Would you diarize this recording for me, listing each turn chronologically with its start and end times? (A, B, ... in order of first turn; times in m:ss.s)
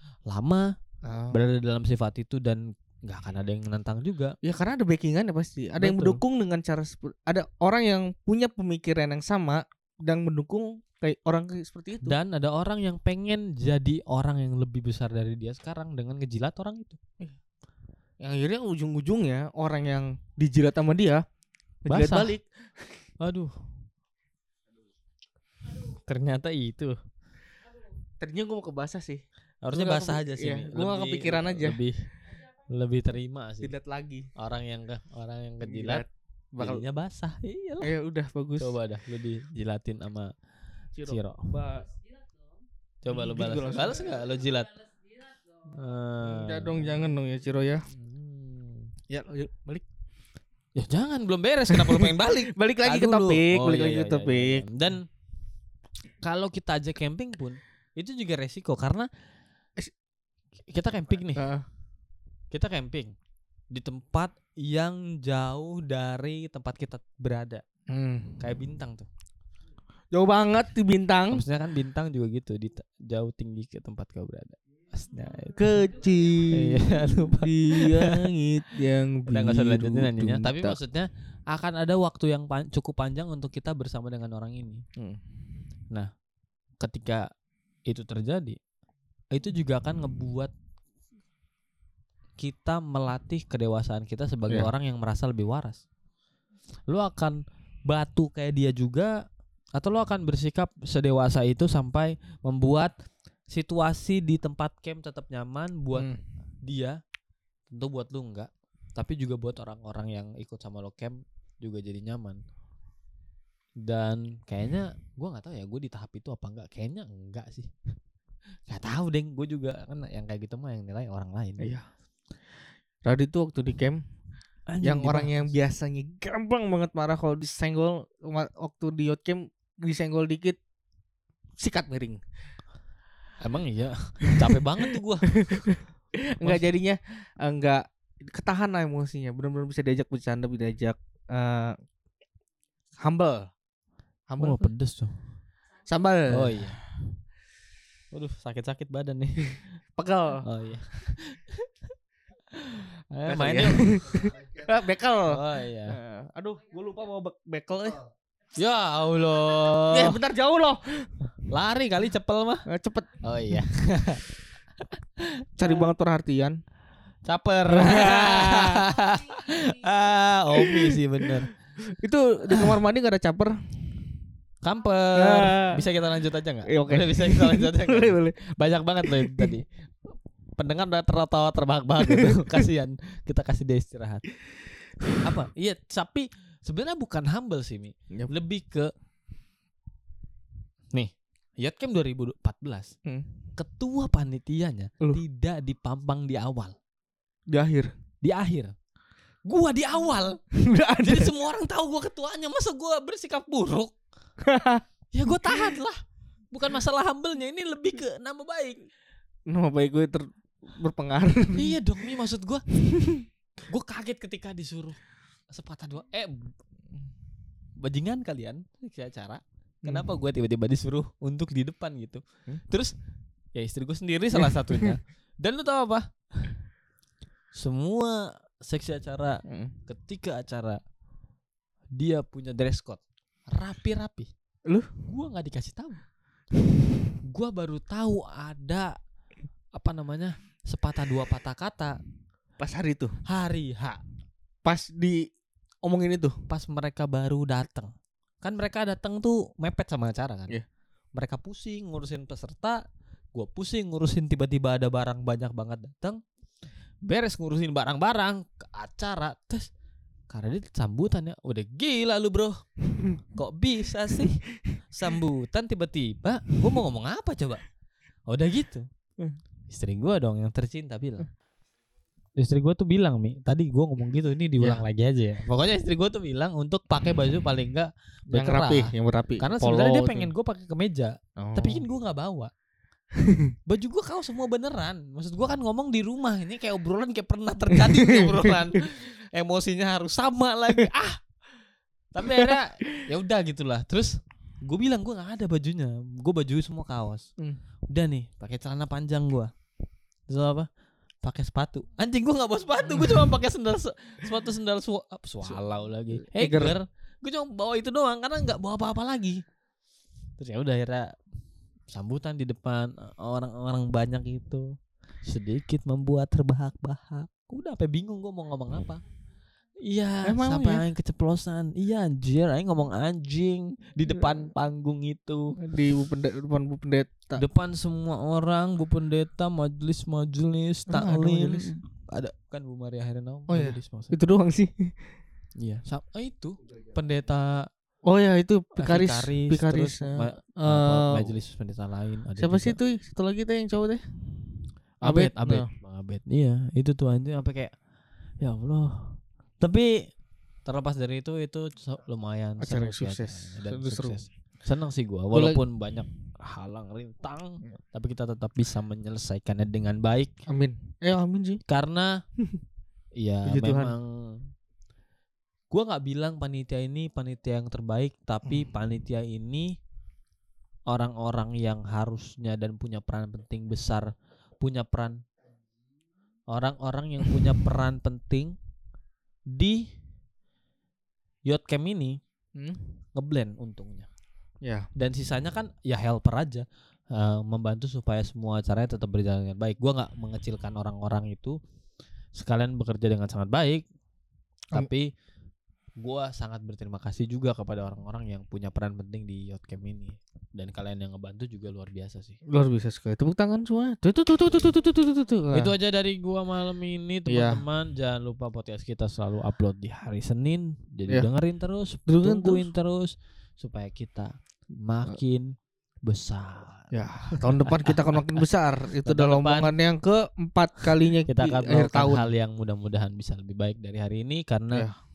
0:00.3-0:00.7 A
0:01.0-0:01.4 B
0:01.3-0:04.4 A
0:04.4-0:12.2 B
0:05.8-0:06.2 A
0:12.0-0:17.0 A
0:18.2-0:21.2 B
0:21.8-0:22.9 B
0:21.9-0:22.3 A
0:23.2-0:23.5 A
0:25.7-0:27.0 A
0:28.2-0:31.8 B
0:29.6-0:33.7 A
0:33.6-0:34.3 B
0:34.4-0:36.0 A
0:35.6-0:36.8 B
0:36.6-0:37.9 A
0:37.8-0:38.8 B
0:38.6-0:40.3 A
0:41.0-0:41.9 B
0:41.0-0:41.5 A
0:43.0-0:44.8 A
0:43.1-0:44.1 B
0:45.7-0:47.0 A
0:46.2-0:47.8 B
0:47.9-0:48.9 A
0:49.1-0:49.8 B
0:50.8-0:55.0 A
0:51.7-0:54.7 B
0:56.2-0:59.1 A
1:00.7-1:01.4 A
1:01.3-1:01.6 B
1:02.5-1:03.1 A
1:03.7-1:07.6 A
1:07.9-1:08.4 B
1:08.4-1:09.1 A
1:10.1-1:11.4 B
1:11.3-1:15.8 A
1:15.6-1:20.8 B
1:16.5-1:18.2 A
1:19.3-1:24.8 A
1:26.8-1:27.3 A
1:27.9-1:28.6 A
1:29.3-1:30.5 A
1:32.4-1:35.8 A
1:36.9-1:39.2 A
1:39.8-1:42.9 A
1:43.5-1:46.1 A
1:45.9-1:46.2 B
1:46.6-1:47.0 A
1:47.7-1:52.4 A
1:53.8-1:57.7 A
1:58.7-2:01.7 A
2:01.6-2:01.8 B
2:03.0-2:04.0 B
2:04.7-2:05.5 A
2:04.8-2:10.6 B
2:11.6-2:12.2 B
2:13.4-2:15.4 A
2:15.3-2:21.7 B
2:23.0-2:23.5 B
2:24.3-2:24.7 B
2:24.4-2:25.1 A
2:25.8-2:26.8 B
2:26.3-2:26.8 A
2:28.1-2:29.7 A
2:30.0-2:30.4 B
2:30.4-2:31.7 A
2:32.5-2:34.3 A
2:33.2-2:38.0 B
2:35.3-2:36.0 A
2:38.6-2:40.2 A
2:39.8-2:41.2 B
2:41.5-2:42.6 A
2:42.7-2:43.2 B
2:43.2-2:44.2 A
2:44.8-2:45.4 A
2:45.6-2:46.6 B
2:47.2-2:51.5 A
2:47.7-2:48.9 B
2:50.6-2:51.3 B
2:51.9-2:53.6 B
2:54.6-3:04.2 A
2:55.2-2:55.8 B
2:56.7-2:58.4 B
2:59.0-2:59.5 B
3:02.0-3:02.7 B
3:05.2-3:08.9 A
3:10.9-3:12.9 A
3:13.6-3:16.7 A
3:17.5-3:17.9 B
3:18.2-3:18.7 A
3:19.4-3:20.4 A
3:20.6-3:21.3 B
3:21.0-3:23.9 A
3:24.4-3:25.7 B
3:25.1-3:28.8 A
3:29.5-3:31.8 B
3:31.5-3:32.7 A
3:32.8-3:33.3 B
3:33.7-3:35.0 A
3:35.5-3:36.5 A
3:37.8-3:42.9 A
3:43.5-3:46.5 A
3:44.4-3:45.0 B
3:47.5-3:50.8 A
3:49.5-3:49.7 B
3:51.9-3:54.3 A
3:55.1-3:56.0 A
3:57.3-3:58.9 A
3:59.7-4:02.0 A
4:02.6-4:03.1 B
4:03.2-4:04.0 A
4:04.6-4:05.3 B
4:05.8-4:06.4 B
4:06.5-4:10.6 A
4:11.1-4:12.8 A
4:13.3-4:16.2 A
4:17.0-4:19.7 A
4:20.3-4:22.6 A
4:23.2-4:27.6 A
4:28.3-4:28.9 A
4:29.7-4:31.3 A
4:32.4-4:42.5 A
4:34.6-4:34.8 B
4:38.3-4:40.3 B
4:41.4-4:41.8 B
4:43.2-4:43.5 B
4:43.7-4:51.2 A
4:47.8-4:48.7 B
4:52.1-4:57.3 A
4:52.3-4:52.6 B
4:57.9-4:59.5 A
5:00.3-5:00.7 A
5:01.2-5:09.4 A
5:02.9-5:03.3 B
5:06.1-5:06.8 B
5:10.4-5:11.1 A
5:11.9-5:14.7 A
5:15.2-5:19.0 A
5:19.8-5:25.6 A
5:20.2-5:20.9 B
5:24.1-5:24.3 B
5:25.6-5:27.4 B
5:27.4-5:34.1 A
5:30.9-5:31.8 B
5:33.5-5:34.9 B
5:35.6-5:37.7 A
5:38.0-5:41.4 B
5:38.8-5:42.8 A
5:42.4-5:44.0 B
5:45.0-5:45.7 B
5:45.0-5:47.7 A
5:48.4-5:50.0 A
5:50.6-6:00.3 A
5:52.6-5:54.2 B
5:55.3-5:55.6 B
6:00.5-6:01.6 B
6:01.7-6:02.2 A
6:03.2-6:04.5 A
6:03.4-6:04.0 B
6:05.7-6:09.7 A
6:10.9-6:15.2 A
6:16.5-6:18.6 A
6:19.5-6:19.9 A
6:21.4-6:22.2 A
6:22.6-6:22.8 B
6:23.2-6:24.1 A
6:24.6-6:24.9 B
6:25.0-6:31.6 A
6:32.4-6:33.8 A
6:34.7-6:35.1 A
6:36.0-6:42.4 A
6:42.5-6:45.7 B
6:45.5-6:55.5 A
6:47.3-6:47.6 B
6:52.1-6:52.7 B
6:56.0-6:58.4 A
6:56.9-7:02.3 B
6:59.0-6:59.7 A
7:01.3-7:04.8 A